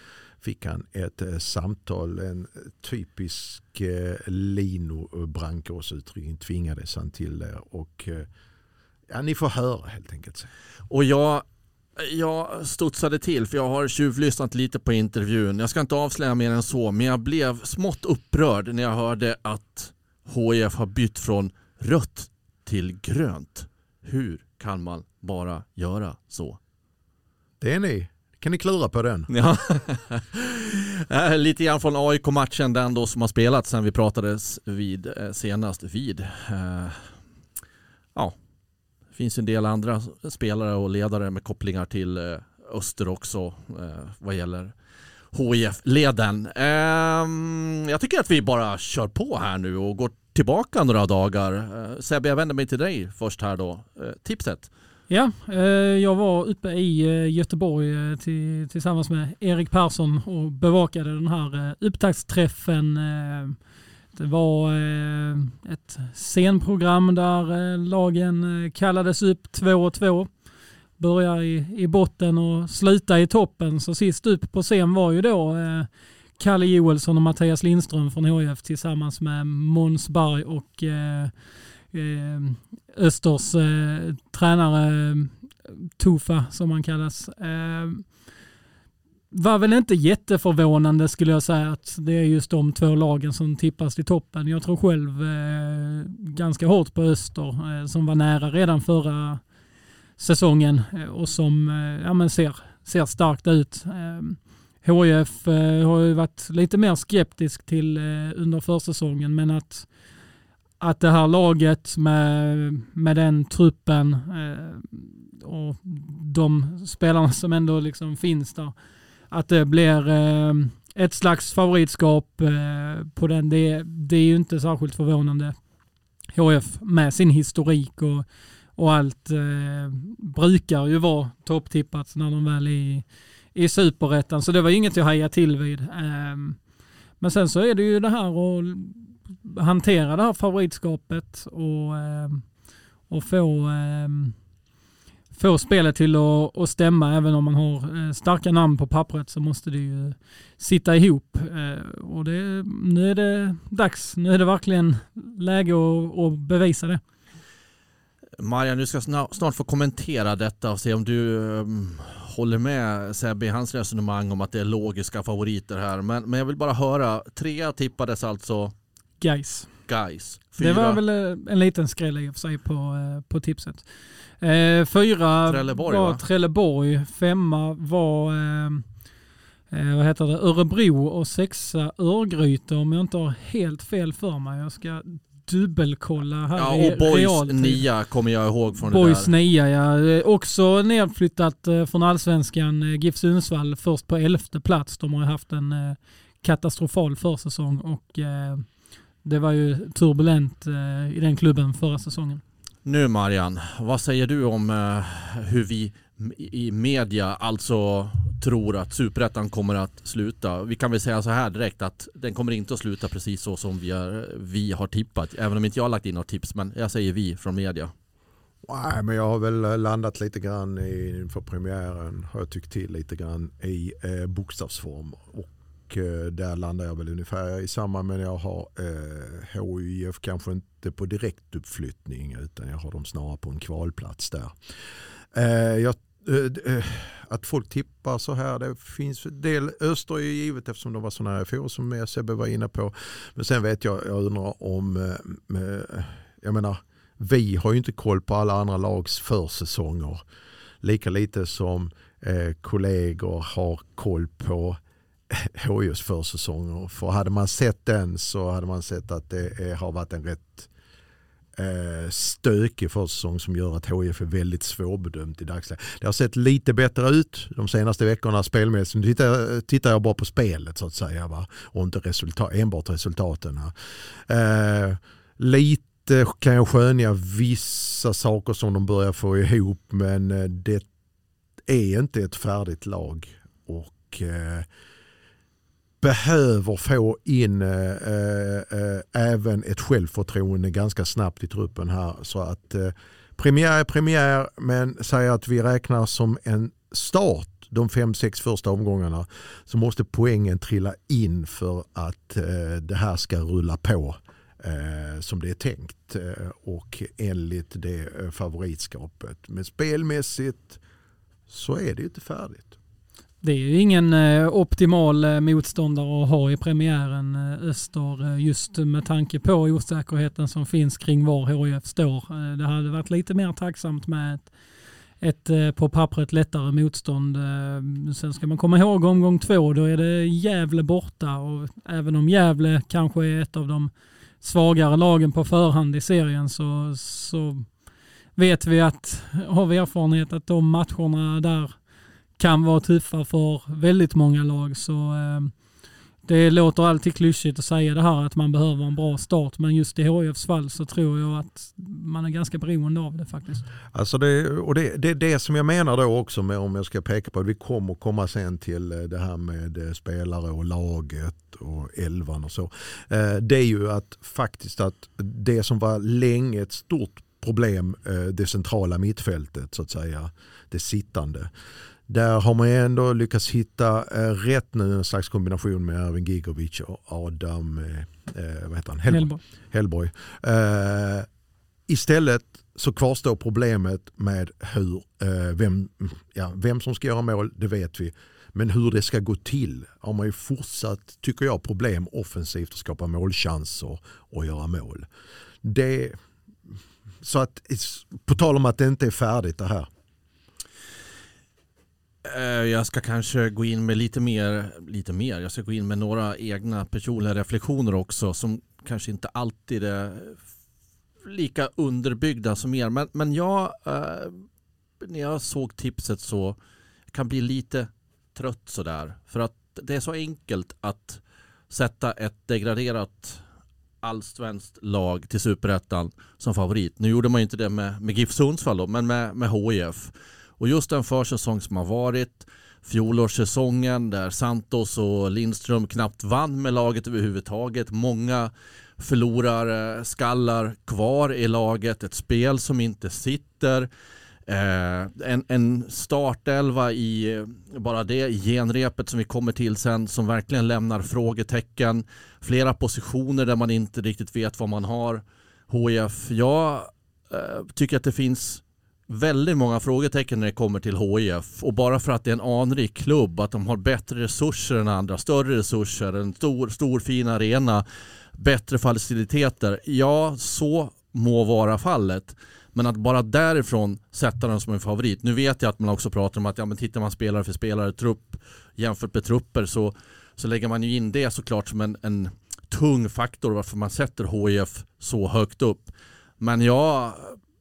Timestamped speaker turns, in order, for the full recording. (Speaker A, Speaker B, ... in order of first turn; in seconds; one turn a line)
Speaker A: 0.4-8.3
Speaker A: 9.1-10.5
Speaker B: 10.9-11.4
Speaker B: 12.0-26.6
Speaker A: 27.6-29.3
Speaker B: 29.3-37.1
Speaker B: 39.1-44.7
Speaker B: 45.3-54.7
Speaker C: 55.1-63.6
Speaker C: 64.1-70.3
Speaker C: 71.0-81.3
Speaker C: 81.9-85.3
Speaker C: 86.0-88.1
Speaker C: 89.3-99.4
Speaker C: 100.2-109.9
Speaker C: 110.8-118.7
Speaker C: 119.3-125.5
Speaker C: 126.3-128.2
Speaker C: 128.8-136.6
Speaker C: 137.2-142.5
Speaker C: 143.1-144.3
Speaker C: 145.3-157.0
Speaker B: 158.4-168.7
Speaker C: 169.2-169.7
Speaker B: 169.9-171.0
Speaker C: 170.6-173.8
Speaker C: 174.4-178.8
Speaker B: 175.5-176.2
Speaker C: 179.7-187.8
Speaker B: 186.6-189.3
Speaker C: 188.8-198.7
Speaker C: 199.2-202.4
Speaker B: 202.8-217.9
Speaker A: 218.6-234.6
Speaker A: 235.3-250.2
Speaker A: 250.8-260.7
Speaker A: 261.6-273.7
Speaker A: 274.3-280.9
Speaker A: 281.6-284.7
Speaker A: 286.0-310.8
Speaker A: 311.5-312.8
Speaker C: 313.4-324.5
Speaker C: 325.2-337.7
Speaker C: 338.4-341.8
Speaker C: 342.4-345.5
Speaker C: 346.2-353.6
Speaker A: 353.9-371.5
Speaker A: 372.1-381.3
Speaker C: 379.1-379.4
Speaker A: 381.9-395.1
Speaker A: 395.6-399.9
Speaker B: 402.2-410.4
Speaker B: 411.2-414.4
Speaker B: 415.0-416.6
Speaker B: 417.1-423.4
Speaker B: 424.0-443.9
Speaker B: 444.5-467.8
Speaker B: 468.4-487.4